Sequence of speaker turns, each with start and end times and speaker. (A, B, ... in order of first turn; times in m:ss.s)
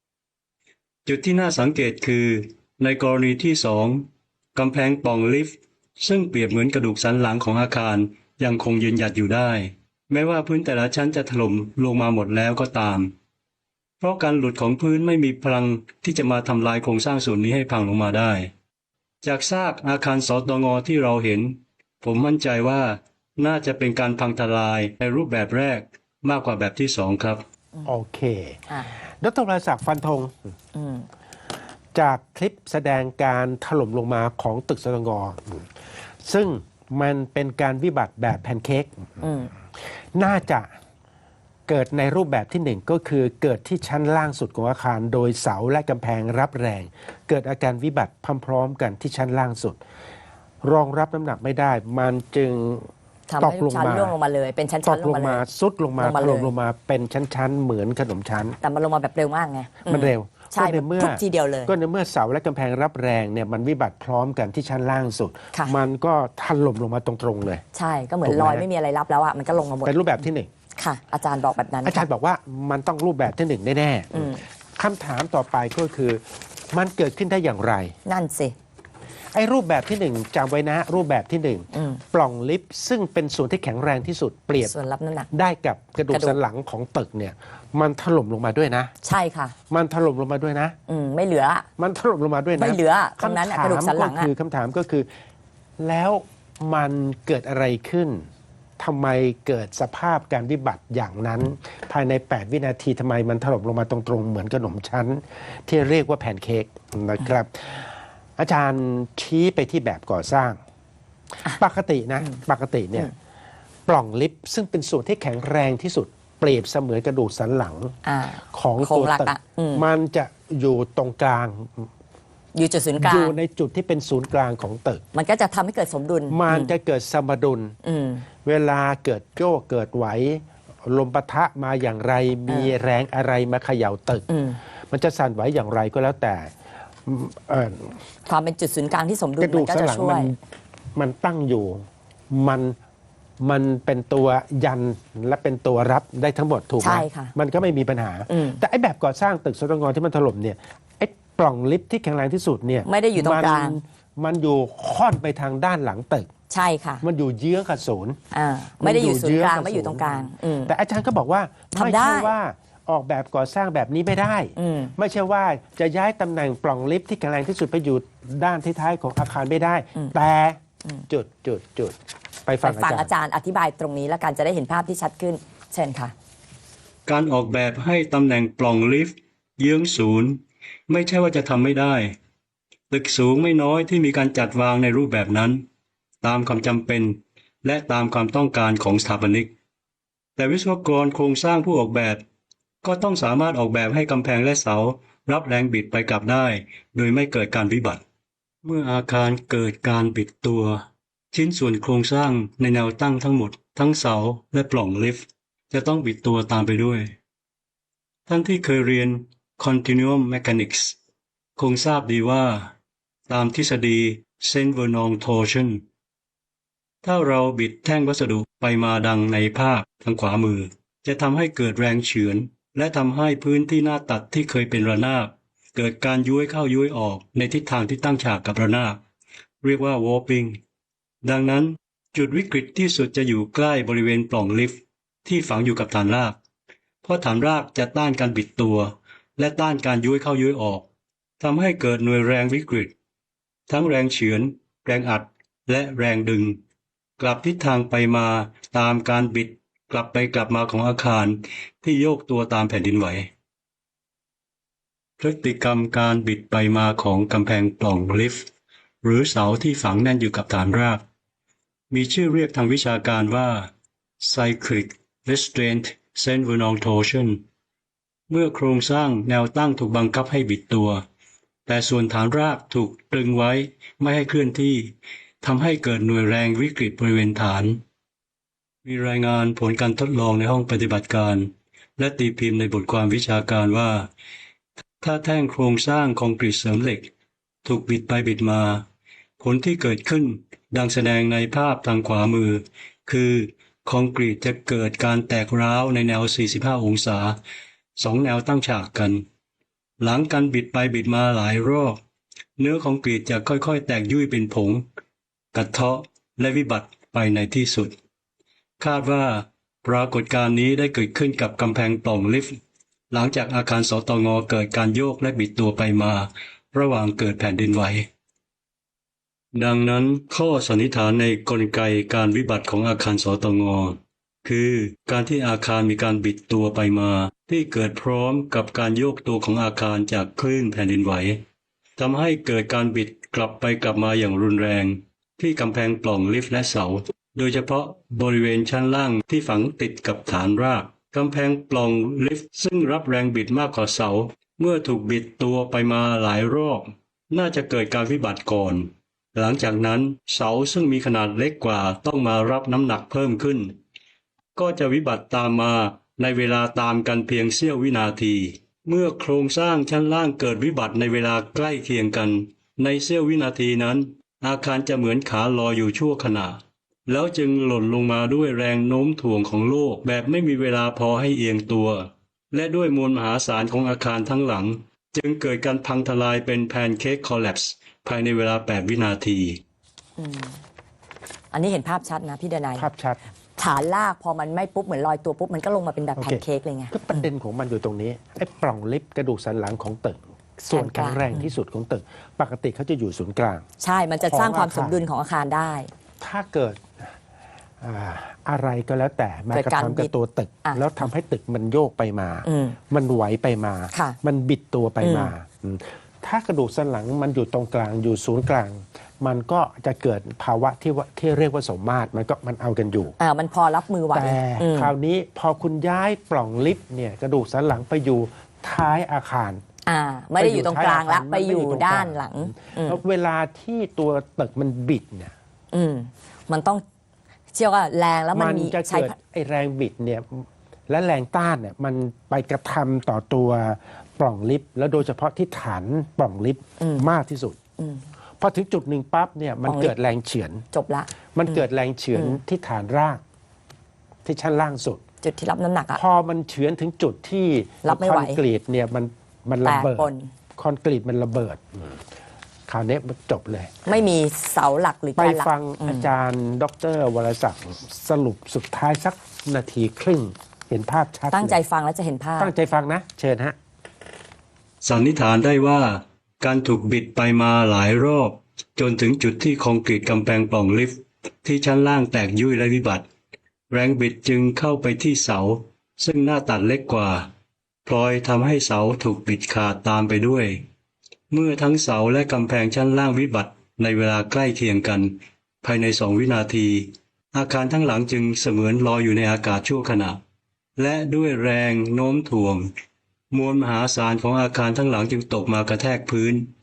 0:01.1-0:13.1 A
0:14.0-0:18.5 A
0:19.2-0:27.4 A
0:27.8-0:30.3 B
0:28.7-0:29.0 C
0:30.8-0:31.1 C
0:32.0-0:35.7 B
0:36.2-0:39.2 B
0:39.2-0:39.5 C
0:40.2-0:40.7 B
0:41.7-0:49.8 B
0:50.6-0:54.2 B
0:53.3-0:55.4 C
0:54.8-0:58.6 B
0:56.0-0:56.5 C
0:58.6-1:01.7 C
0:59.9-1:07.6 B
1:07.7-1:10.2 C
1:08.2-1:08.6 B
1:09.8-1:10.5 B
1:10.8-1:12.1 C
1:11.8-1:18.0 B
1:14.1-1:14.4 C
1:18.1-1:18.6 C
1:19.3-1:24.7 B
1:21.7-1:22.0 C
1:24.6-1:25.3 C
1:25.3-1:28.9 B
1:26.1-1:26.4 C
1:29.0-1:29.6 C
1:29.7-1:30.8 B
1:30.9-1:31.7 C
1:31.8-1:35.1 B
1:32.6-1:34.3 C
1:35.8-1:38.3 B
1:38.8-1:50.6 B
1:51.5-1:53.1 B
1:53.9-1:58.0 B
1:58.0-1:59.8 C
1:58.5-2:01.9 B
2:02.5-2:03.3 C
2:03.0-2:05.0 B
2:05.1-2:06.7 C
2:06.3-2:07.8 B
2:07.8-2:08.3 C
2:08.4-2:14.3 B
2:12.5-2:12.7 C
2:14.3-2:14.6 C
2:14.9-2:16.5 B
2:17.1-2:18.0 B
2:18.3-2:20.3 C
2:19.4-2:20.4 B
2:21.0-2:22.8 B
2:23.4-2:36.3 B
2:26.8-2:27.3 C
2:28.3-2:28.6 C
2:32.9-2:33.8 C
2:36.5-2:37.0 C
2:37.0-2:38.2 B
2:38.3-2:40.7 C
2:38.8-2:53.1 B
2:41.7-2:42.3 C
2:44.6-2:45.0 C
2:52.6-2:56.1 C
2:57.1-3:02.2 A
3:02.9-3:05.6 A
3:06.2-3:09.5 A
3:10.4-3:12.2 A
3:12.8-3:18.0 A
3:18.6-3:27.1 A
3:28.3-3:31.0 A
3:31.6-3:32.8 A
3:33.3-3:35.8 A
3:37.0-3:49.0 A
3:49.6-3:50.6 A
3:51.2-3:56.4 A
3:57.0-4:00.9 A
4:01.4-4:02.9 A
4:03.7-4:06.6 A
4:07.2-4:13.3 A
4:15.2-4:18.5 A
4:19.0-4:21.0 A
4:21.9-4:23.7 A
4:24.2-4:27.4 A
4:28.3-4:31.0 A
4:31.7-4:37.8 A
4:38.8-4:44.1 A
4:45.0-4:47.1 A
4:47.6-4:48.8 A
4:49.4-4:57.4 A
4:58.0-4:59.2 A
5:00.0-5:02.0 A
5:02.6-5:04.8 A
5:05.5-5:08.0 A
5:08.8-5:12.6 A
5:13.1-5:18.1 A
5:19.6-5:31.4 A
5:32.0-5:53.8 A
5:54.6-6:19.6 A
6:20.2-6:20.6 C
6:21.5-6:22.9 C
6:22.8-6:23.2 B
6:23.6-6:27.2 C
6:26.2-6:33.7 B
6:30.6-6:31.5 C
6:33.8-6:35.9 C
6:34.2-6:35.0 B
6:36.2-6:37.1 B
6:37.8-6:53.2 B
6:39.5-6:40.1 C
6:42.4-6:42.8 C
6:43.9-6:44.2 C
6:45.0-6:45.3 C
6:53.2-6:54.9 C
6:54.1-6:59.6 B
6:59.9-7:03.0 C
7:00.4-7:05.3 B
7:05.7-7:06.8 C
7:07.5-7:09.1 C
7:08.3-7:17.6 B
7:16.8-7:17.1 C
7:17.8-7:18.1 C
7:18.4-7:20.6 B
7:19.7-7:19.9 C
7:20.7-7:21.6 C
7:21.3-7:23.2 B
7:22.1-7:22.4 C
7:24.2-7:25.0 B
7:25.2-7:26.0 C
7:26.0-7:32.0 B
7:27.8-7:28.4 C
7:29.6-7:30.3 C
7:32.7-7:33.7 B
7:33.9-7:36.1 C
7:35.2-7:41.6 B
7:41.3-7:42.5 C
7:42.4-7:43.6 B
7:44.8-7:53.0 A
7:53.7-7:57.3 A
7:57.9-8:00.7 A
8:01.3-8:10.2 A
8:10.8-8:12.7 A
8:13.3-8:16.5 A